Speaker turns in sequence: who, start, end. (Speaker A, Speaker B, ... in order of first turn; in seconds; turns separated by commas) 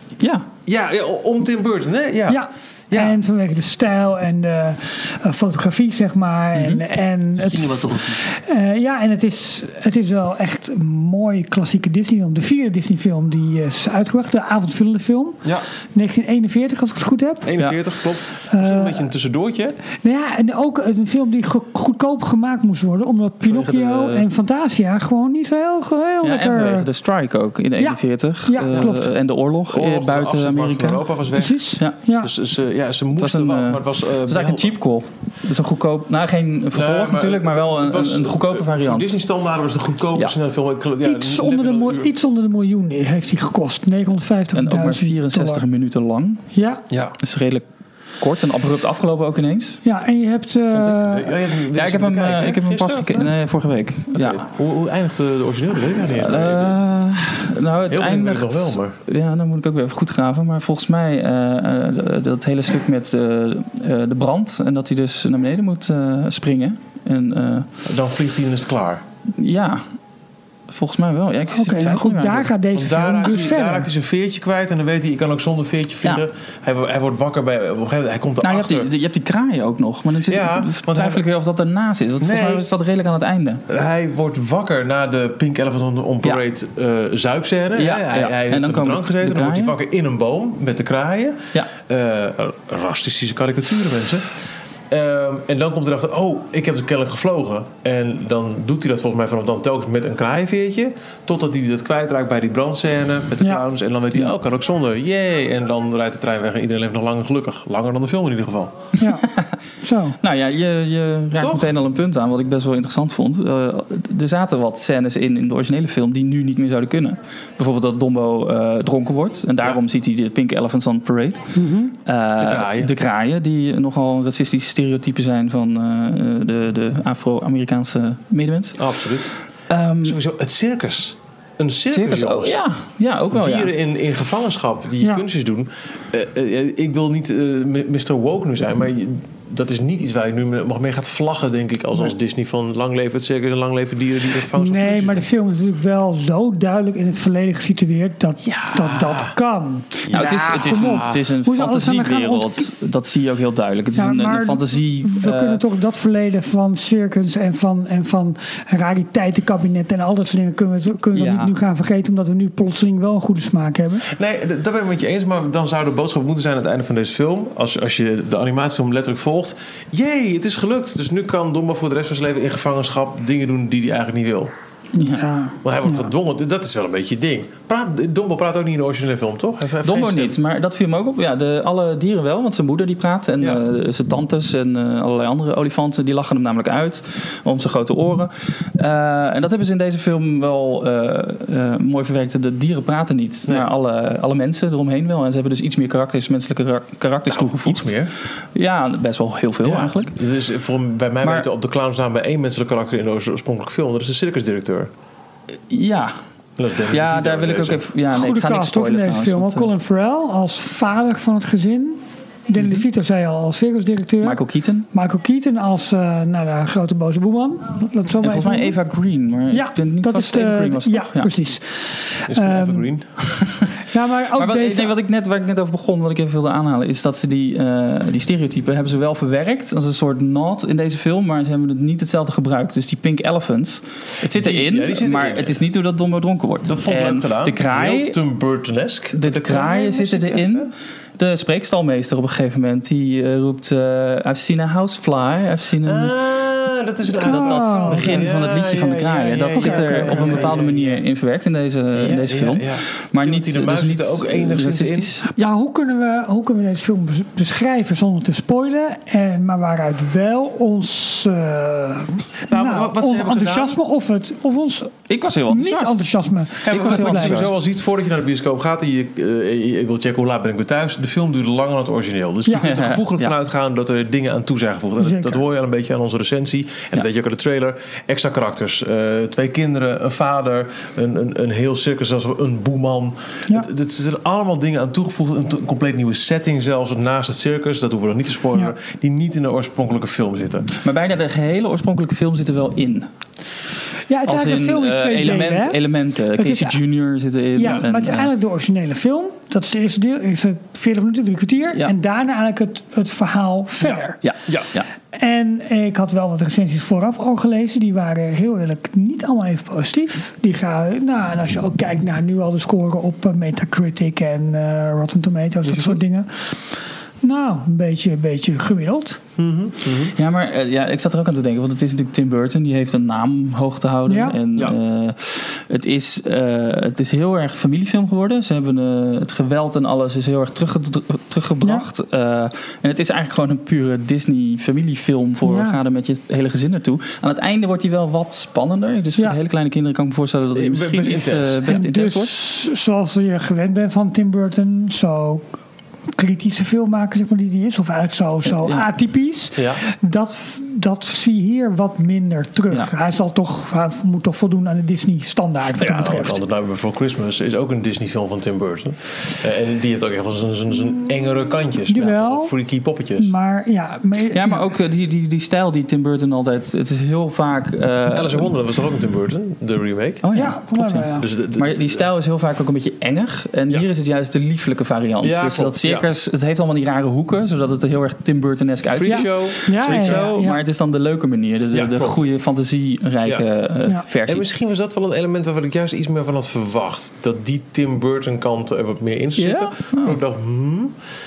Speaker A: 0.2-0.5, Speaker B: 0.7-3.2, Speaker C: 2.3-15.4, Speaker A: 6.5-6.8, Speaker B: 7.4-8.2, Speaker C: 15.9-17.5, Speaker B: 17.4-19.8, Speaker C: 18.5-19.0, Speaker C: 20.0-26.9, Speaker A: 23.4-24.3, Speaker A: 26.2-31.1, Speaker C: 27.8-29.1, Speaker B: 29.7-31.7, Speaker C: 31.3-32.3, Speaker B: 32.2-34.7, Speaker A: 33.2-39.2, Speaker B: 36.7-42.1, Speaker C: 41.0-45.6, Speaker A: 44.5-46.4, Speaker C: 46.5-46.8, Speaker B: 46.9-47.1, Speaker A: 47.2-47.6, Speaker A: 48.2-49.8, Speaker C: 49.8-51.3, Speaker A: 50.7-51.0, Speaker B: 51.0-53.3, Speaker A: 51.7-54.4, Speaker B: 54.1-56.7, Speaker A: 56.1-67.7, Speaker B: 57.9-59.0, Speaker B: 67.8-69.0, Speaker A: 69.3-69.8, Speaker A: 70.7-72.5, Speaker C: 71.5-73.9, Speaker B: 72.7-78.9, Speaker A: 78.4-83.6, Speaker B: 80.2-81.2, Speaker B: 82.2-82.7, Speaker B: 83.7-94.3, Speaker A: 87.8-89.8, Speaker B: 94.9-108.8, Speaker C: 109.0-109.2, Speaker A: 109.2-109.5, Speaker C: 109.8-110.2, Speaker A: 110.2-121.5, Speaker B: 111.3-111.7, Speaker C: 121.5-121.9, Speaker A: 122.0-128.9, Speaker B: 122.4-122.9, Speaker B: 128.8-129.3, Speaker A: 129.7-130.2, Speaker B: 130.0-132.6, Speaker A: 131.9-133.7, Speaker B: 133.3-145.2, Speaker C: 144.5-152.7, Speaker B: 148.4-149.3, Speaker B: 150.1-151.2, Speaker A: 150.1-155.6, Speaker C: 153.9-164.1, Speaker A: 161.1-161.5, Speaker B: 164.1-174.5, Speaker A: 175.0-175.2, Speaker C: 175.0-176.1, Speaker B: 175.6-180.4, Speaker A: 179.8-197.9, Speaker B: 197.2-198.1, Speaker A: 198.5-200.1, Speaker B: 199.6-204.9, Speaker A: 205.7-206.1, Speaker B: 206.6-207.8, Speaker A: 206.9-209.7, Speaker C: 208.1-218.8, Speaker A: 212.6-212.8, Speaker A: 214.2-214.9, Speaker A: 218.2-221.3, Speaker C: 219.5-222.9, Speaker B: 222.3-223.1, Speaker A: 223.3-223.7, Speaker C: 223.8-224.9, Speaker A: 224.3-238.2, Speaker B: 234.2-235.6, Speaker B: 236.7-240.7, Speaker A: 239.1-246.1, Speaker B: 245.8-251.0, Speaker A: 247.2-255.3, Speaker C: 247.2-248.2, Speaker C: 249.5-250.6, Speaker B: 251.9-255.1, Speaker C: 255.3-264.9, Speaker B: 262.5-263.8, Speaker A: 265.1-266.0, Speaker C: 265.5-267.5, Speaker A: 266.6-267.6, Speaker B: 266.6-290.7, Speaker A: 272.5-273.3, Speaker C: 275.0-275.4, Speaker A: 290.8-293.1, Speaker C: 294.1-295.8, Speaker A: 294.3-298.3, Speaker C: 296.3-296.8, Speaker C: 297.5-304.2, Speaker A: 303.8-304.9, Speaker C: 305.1-316.6, Speaker B: 315.6-316.0, Speaker C: 317.2-319.2, Speaker B: 319.4-320.1, Speaker A: 320.1-342.3, Speaker C: 324.1-324.4, Speaker C: 335.4-335.8, Speaker B: 340.5-341.6, Speaker C: 341.6-345.4, Speaker C: 346.1-356.4, Speaker A: 348.5-348.9, Speaker B: 355.8-363.3, Speaker C: 361.9-362.5, Speaker C: 363.2-364.7, Speaker A: 364.3-368.5, Speaker B: 368.1-370.2, Speaker A: 370.2-384.4, Speaker C: 370.3-371.2, Speaker B: 371.2-372.0, Speaker B: 375.2-376.1, Speaker B: 378.9-380.3, Speaker C: 379.1-380.6, Speaker B: 381.7-382.2, Speaker B: 384.2-390.9, Speaker A: 389.4-390.2